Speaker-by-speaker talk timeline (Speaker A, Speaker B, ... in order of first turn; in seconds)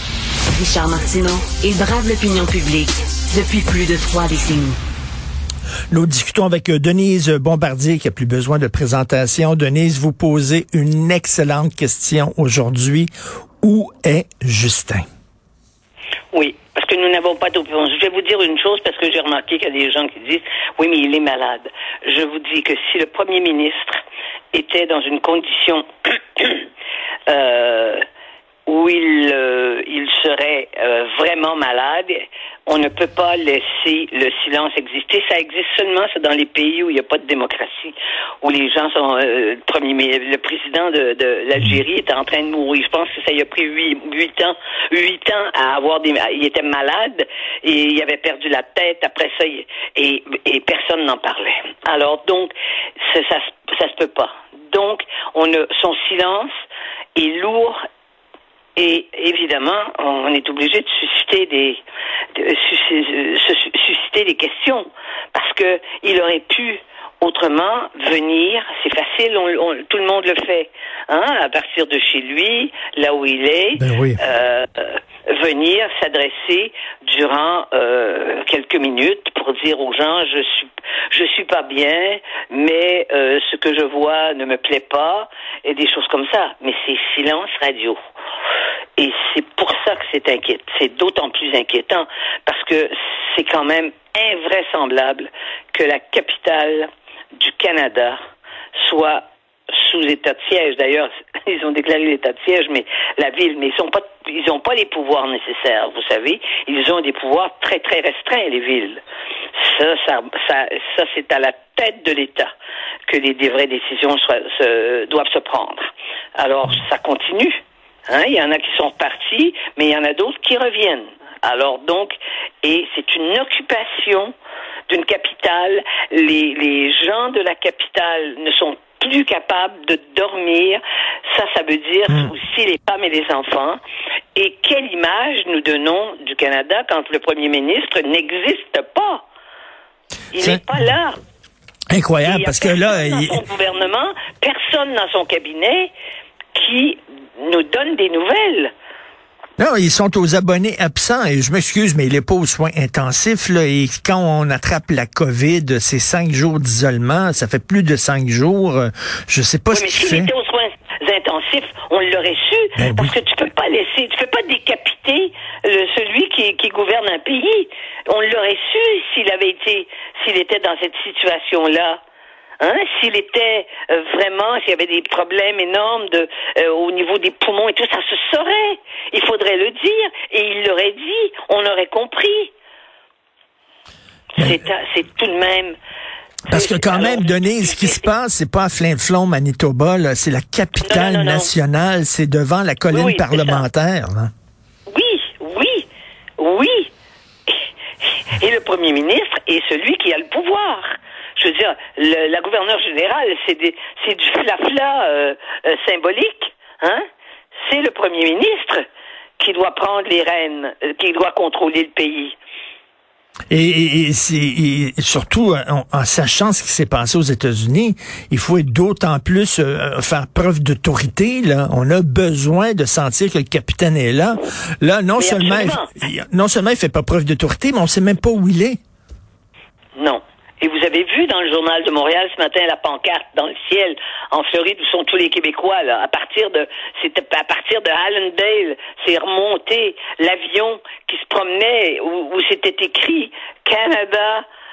Speaker A: 0.5-4.8
Speaker B: 5.9-15.1, 73.8-74.2, 141.9-143.4, 149.6-160.3, 162.8-163.1, 186.5-194.3, 213.5-228.8
Speaker C: 16.3-24.0, 24.5-26.7, 27.3-28.0, 28.7-56.5, 57.2-57.8, 58.8-61.8, 62.4-88.0, 89.0-98.2, 98.8-109.0, 109.6-112.5, 113.1-124.3, 124.9-133.8, 134.3-139.2, 140.3-141.2, 142.2-145.9, 146.5-148.7, 159.7-172.0, 172.6-182.5, 184.4-185.8, 186.5-188.1, 190.8-191.5, 192.9-193.6, 194.9-195.9, 196.4-196.9, 198.3-207.1, 207.6-208.8, 209.4-212.4, 225.2-226.0, 230.0-244.4